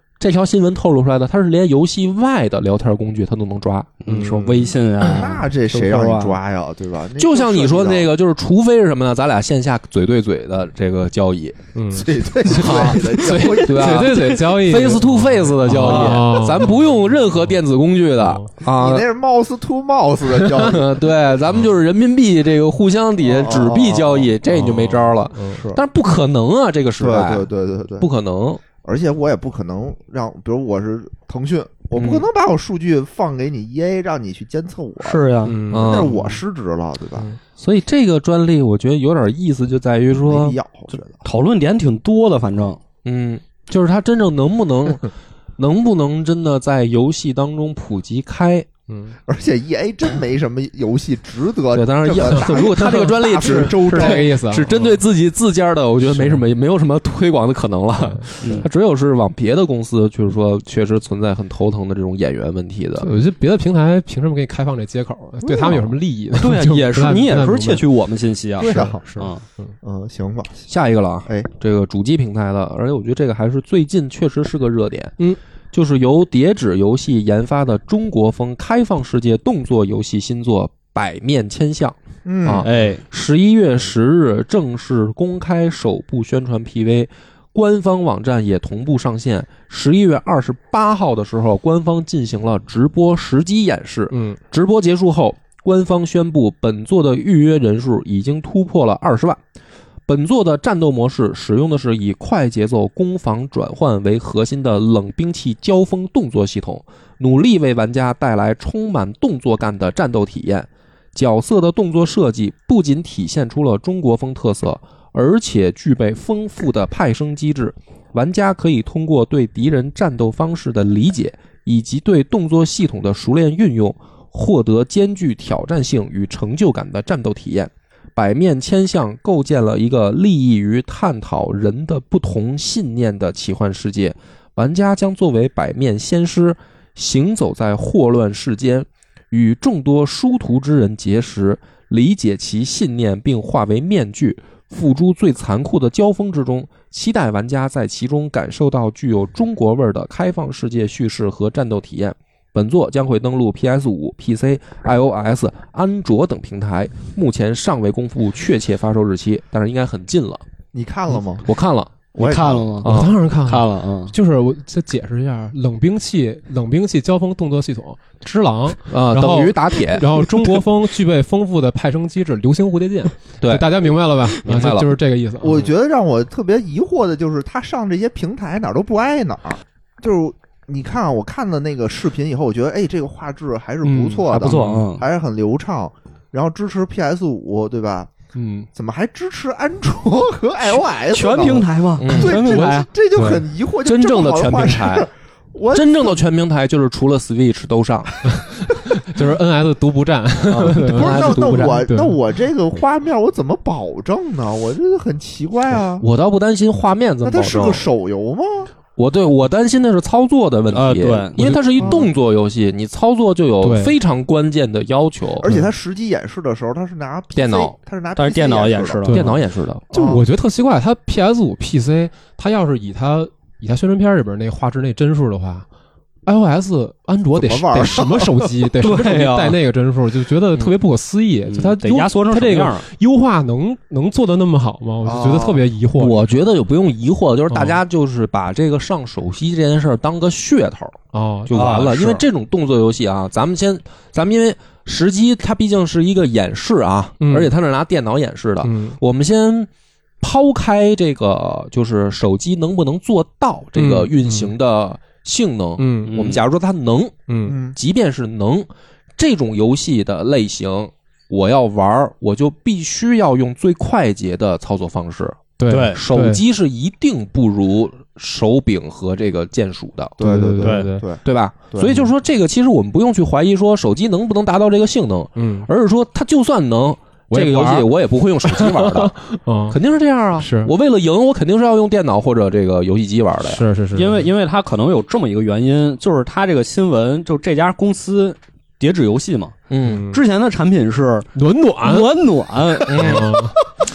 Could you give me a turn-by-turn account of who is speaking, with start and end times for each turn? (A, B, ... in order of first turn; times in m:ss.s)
0:00.2-0:04.0 A
0:04.0-0:06.4 B
0:04.0-0:04.7 C
0:05.0-0:08.1 D
0:07.2-0:11.6 A
0:11.7-0:16.9 C
0:11.9-0:14.2 D
0:12.5-0:19.0 A
0:15.8-0:16.2 B
0:18.2-0:18.5 C
0:18.6-0:21.0 D
0:20.4-0:27.5 A
0:23.2-0:24.3 D
0:24.5-0:25.6 C
0:25.5-0:25.8 D
0:27.0-0:28.1 D
0:28.0-0:28.6 A
0:28.8-0:37.3 D
0:31.9-0:32.2 A
0:35.0-0:35.6 B
0:35.4-0:36.3 C
0:35.7-0:36.2 A
0:37.6-0:40.6 A
0:40.2-0:41.2 D
0:41.2-0:42.8 B
0:43.0-0:48.7 A
0:48.9-0:49.1 C
0:49.2-0:54.3 D
0:51.7-1:03.2 A
0:52.4-0:55.0 C
0:56.1-0:56.4 C
0:58.0-0:58.2 C
0:58.4-0:58.7 B
1:03.0-1:07.8 C
1:06.3-1:09.4 B
1:08.6-1:09.7 C
1:08.6-1:09.0 D
1:09.8-1:10.7 D
1:10.7-1:15.1 A
1:15.7-1:39.4 A
1:22.2-1:22.7 D
1:22.6-1:23.0 B
1:34.1-1:34.4 C
1:40.1-2:40.4 A
2:40.7-2:41.5 D
2:41.4-2:41.9 A
2:42.1-2:42.8 D
2:42.2-2:44.1 B
2:42.8-2:43.1 A
2:42.8-2:55.7 C
2:48.9-2:50.6 A
2:53.4-2:53.8 A
2:54.4-2:54.9 A
2:55.4-3:08.1 D
3:03.8-3:05.0 B
3:04.4-3:04.9 C
3:08.4-3:08.7 C
3:08.7-3:16.2 D
3:10.6-3:12.9 B
3:12.0-3:12.6 A
3:12.5-3:13.4 C
3:13.8-3:15.1 A
3:15.7-3:18.3 A
3:18.3-3:22.2 C
3:20.5-3:21.9 A
3:20.6-3:26.0 D
3:26.0-3:27.9 A
3:27.2-3:28.7 D
3:29.0-3:35.5 A
3:30.7-3:31.4 B
3:31.4-3:32.0 C
3:31.8-3:32.1 D
3:33.6-3:33.9 C
3:35.4-3:39.2 D
3:37.3-3:37.7 A
3:38.2-3:39.2 B
3:39.1-3:39.4 C
3:39.1-3:39.8 A
3:39.9-3:40.2 D
3:39.9-3:45.6 C
3:46.2-3:56.2 C
3:47.3-3:48.5 D
3:48.8-3:49.6 B
3:51.5-3:52.8 B
3:55.0-3:55.7 D
3:55.9-4:09.7 A
3:57.5-3:57.8 C
4:01.1-4:01.8 C
4:01.5-4:02.2 B
4:07.2-4:07.5 C
4:08.6-4:09.0 C
4:10.2-4:17.2 A
4:13.8-4:14.5 C
4:15.8-4:16.3 C
4:16.0-4:16.4 B
4:17.3-4:17.5 C
4:17.4-4:17.8 D
4:17.7-4:30.2 A
4:25.6-4:26.4 C
4:25.7-4:26.0 B
4:30.2-4:32.0 D
4:30.2-4:31.0 C
4:30.6-4:30.9 B
4:31.2-4:39.2 A
4:35.4-4:35.7 C
4:37.3-4:37.9 C
4:38.4-4:39.8 C
4:39.7-4:43.6 A
4:40.4-4:40.7 C
4:43.4-4:44.2 C
4:43.9-4:49.6 B
4:49.7-4:50.0 A
4:49.8-4:50.2 C
4:50.1-4:51.3 B
4:51.3-4:52.1 C
4:51.8-4:53.1 B
4:52.8-4:53.4 A
4:53.0-4:53.6 C